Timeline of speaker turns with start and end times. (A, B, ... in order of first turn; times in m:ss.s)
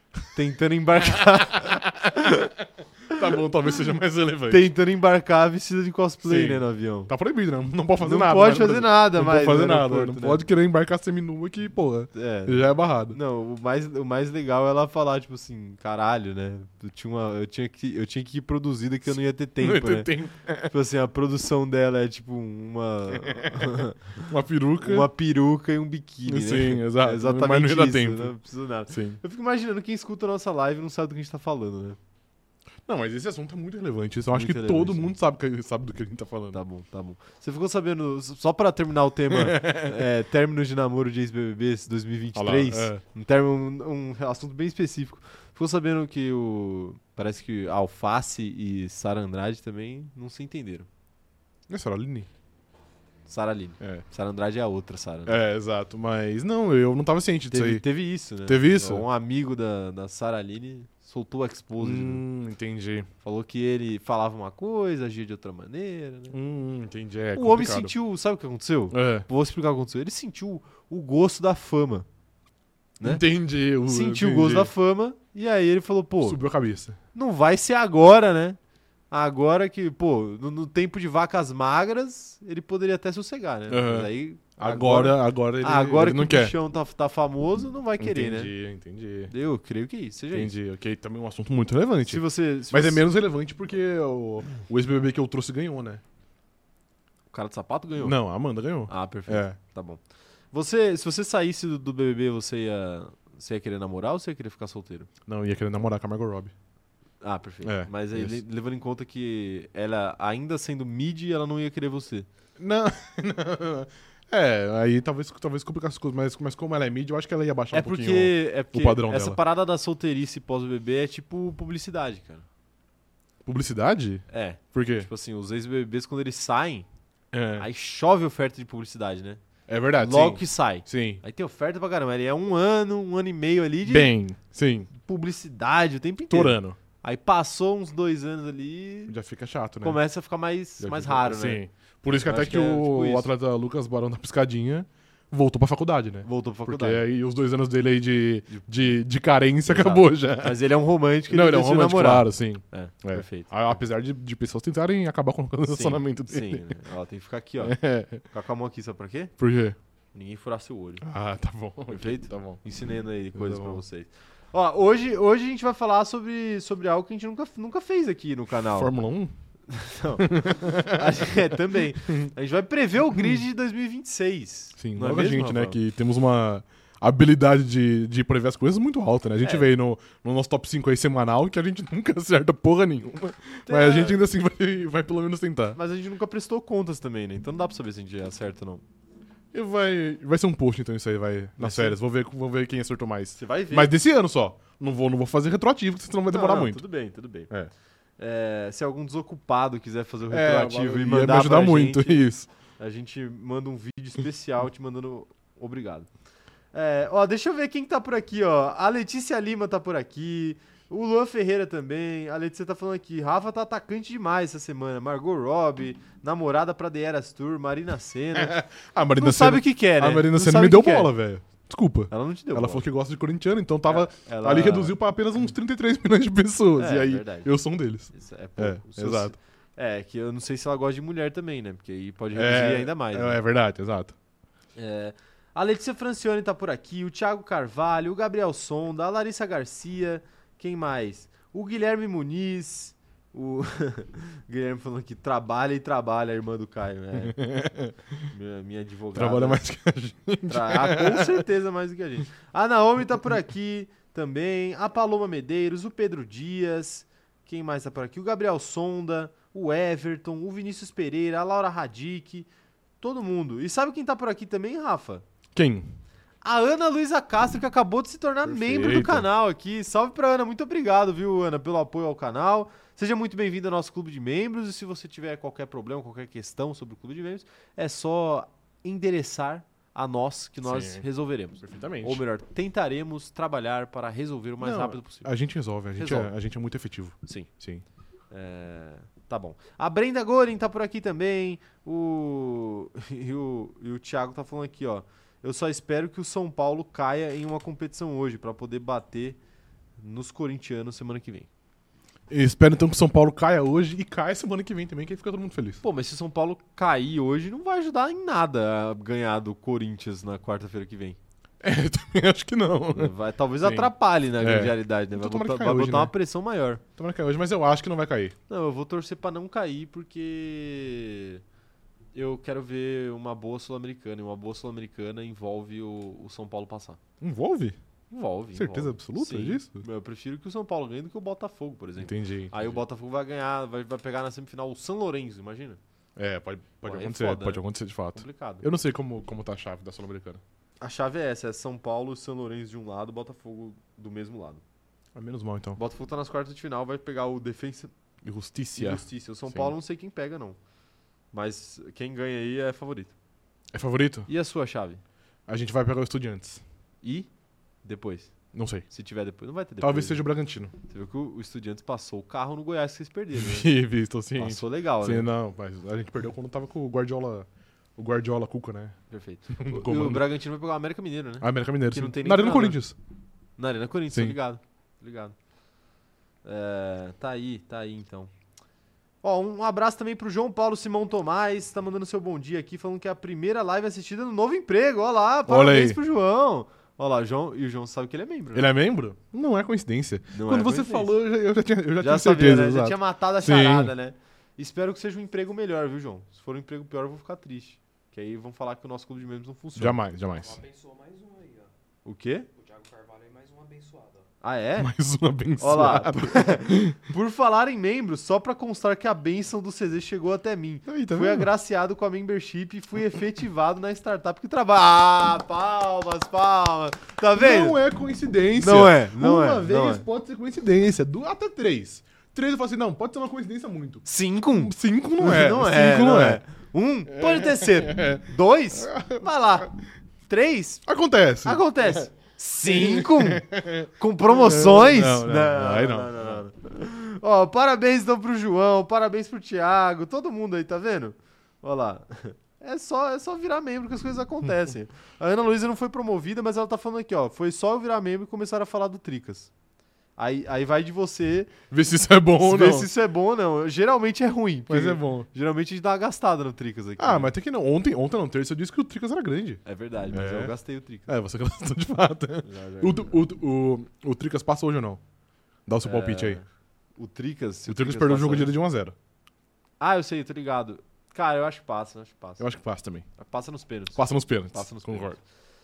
0:00.2-0:02.5 A
0:01.6-0:04.6 B
0:04.5-0:07.1 A
0:06.2-0:13.2 B
0:08.0-0:10.4 A
0:12.1-0:20.1 A
0:19.6-0:20.7 B
0:20.7-0:24.3 A
0:23.1-0:25.1 B
0:24.8-0:32.0 A
0:26.2-0:28.3 B
0:28.9-0:29.2 B
0:32.8-0:36.6 B
0:34.3-0:35.1 A
0:36.5-0:50.9 A
0:39.3-0:40.0 B
0:42.3-0:43.0 B
0:51.7-0:52.3 B
0:53.3-0:55.4 A
0:55.2-0:57.8 B
0:57.5-1:02.2 A
0:58.4-0:59.0 B
1:01.8-1:03.1 B
1:03.2-1:06.4 A
1:06.3-1:07.9 B
1:07.3-1:12.1 A
1:08.9-1:09.3 B
1:13.0-1:14.7 B
1:13.8-1:16.4 A
1:16.2-1:17.0 B
1:17.1-1:18.6 A
1:19.1-1:28.5 A
1:23.7-1:26.5 B
1:28.0-1:29.3 B
1:29.3-1:30.5 A
1:30.3-1:36.0 B
1:32.0-1:33.0 A
1:37.3-1:38.2 A
1:38.0-1:39.6 B
1:38.9-1:40.0 A
1:40.5-1:45.1 A
1:45.2-1:46.5 B
1:47.2-1:52.3 A
1:47.6-1:48.4 B
1:52.6-1:59.4 B
1:57.7-2:02.4 A
2:03.4-2:05.1 B
2:04.3-2:06.8 A
2:07.3-2:07.7 B
2:07.6-2:09.4 A
2:09.7-2:11.2 B
2:10.0-2:14.1 A
2:13.8-2:14.9 B
2:14.9-2:19.2 A
2:16.3-2:16.8 B
2:19.1-2:20.0 B
2:19.8-2:21.6 A
2:20.8-2:30.6 B
2:22.2-2:23.3 A
2:26.2-2:27.0 A
2:29.7-2:33.8 A
2:31.3-2:36.7 B
2:35.7-2:39.3 A
2:37.6-2:38.2 B
2:39.4-2:39.8 B
2:40.1-2:41.0 A
2:41.0-2:42.6 B
2:41.9-2:48.9 A
2:43.3-2:43.8 B
2:48.7-2:49.3 B
2:49.7-2:55.8 A
2:50.2-2:51.1 B
2:54.8-3:05.8 B
2:59.4-2:59.7 A
3:03.7-3:04.2 A
3:05.7-3:08.8 A
3:09.5-3:16.8 B
3:11.6-3:12.0 A
3:13.4-3:13.9 A
3:16.3-3:17.5 A
3:18.2-3:22.2 A
3:20.3-3:22.5 B
3:22.8-3:26.1 A
3:26.7-3:38.6 A
3:38.4-3:49.4 B
3:39.2-3:41.1 A
3:42.1-3:42.8 A
3:43.9-3:45.0 A
3:46.8-3:47.5 A
3:48.1-3:53.4 A
3:52.3-3:54.2 B
3:54.8-4:07.4 A
4:07.2-4:07.9 B
4:08.3-4:09.6 A
4:09.2-4:11.4 B
4:10.5-4:22.5 A
4:23.0-4:25.2 A
4:25.5-4:25.9 B
4:26.4-4:45.3 A
4:28.4-4:29.3 B
4:40.6-4:41.0 B
4:41.6-4:42.2 B
4:44.6-4:47.8 B
4:46.0-4:46.3 A
4:48.3-4:59.4 A
5:00.0-5:01.5 A
5:02.3-5:05.8 B
5:05.8-5:11.2 A
5:11.6-5:16.1 B
5:13.0-5:16.8 A
5:17.0-5:18.4 B
5:18.5-5:21.4 A
5:22.1-5:27.0 A
5:27.2-5:27.8 B
5:28.1-5:35.8 A
5:28.5-5:29.8 B
5:32.0-5:32.8 B
5:36.2-5:40.4 B
5:36.8-5:37.6 A
5:38.1-5:38.6 A
5:40.8-5:44.6 A
5:45.1-5:45.8 B
5:45.8-5:47.9 A
5:48.2-5:49.7 B
5:48.8-5:50.6 A
5:51.3-5:53.1 A
5:53.7-5:54.3 B
5:54.3-5:55.0 A
5:55.5-5:56.6 B
5:57.0-5:57.3 A
5:57.8-5:58.3 A
5:58.5-5:58.9 B
5:58.9-6:00.2 A
5:59.8-6:00.7 B
6:00.9-6:03.7 A
6:03.4-6:09.0 B
6:04.4-6:05.3 A
6:09.1-6:12.8 A
6:09.6-6:10.2 B
6:11.4-6:13.0 B
6:13.6-6:15.4 A
6:14.1-6:14.4 B
6:16.4-6:18.3 A
6:19.2-6:28.7 A
6:25.5-6:26.0 B
6:28.5-6:33.9 B
6:30.3-6:31.1 A
6:32.0-6:40.0 A
6:39.8-6:40.6 B
6:40.3-6:41.7 C
6:42.0-6:42.5 A
6:42.5-6:44.3 C
6:44.4-6:44.9 A
6:44.8-6:47.0 B
6:45.6-6:57.8 A
6:50.9-6:51.5 B
6:57.4-7:04.0 B
6:58.6-7:00.0 A
7:04.0-7:09.7 A
7:04.6-7:06.4 B
7:07.1-7:09.7 B
7:10.2-7:10.8 A
7:10.9-7:12.0 B
7:11.4-7:29.5 A
7:12.6-7:16.4 B
7:30.2-7:31.5 A
7:31.7-7:32.9 B
7:32.4-7:37.3 A
7:34.7-7:35.3 B
7:37.0-7:45.0 B
7:39.6-7:41.1 A
7:42.4-7:43.2 A
7:45.6-7:46.4 B
7:45.8-7:46.4 A
7:47.0-7:48.5 A
7:47.7-7:49.0 B
7:49.8-7:52.5 A
7:52.4-7:53.1 B
7:53.2-7:55.2 A
7:54.0-7:55.2 B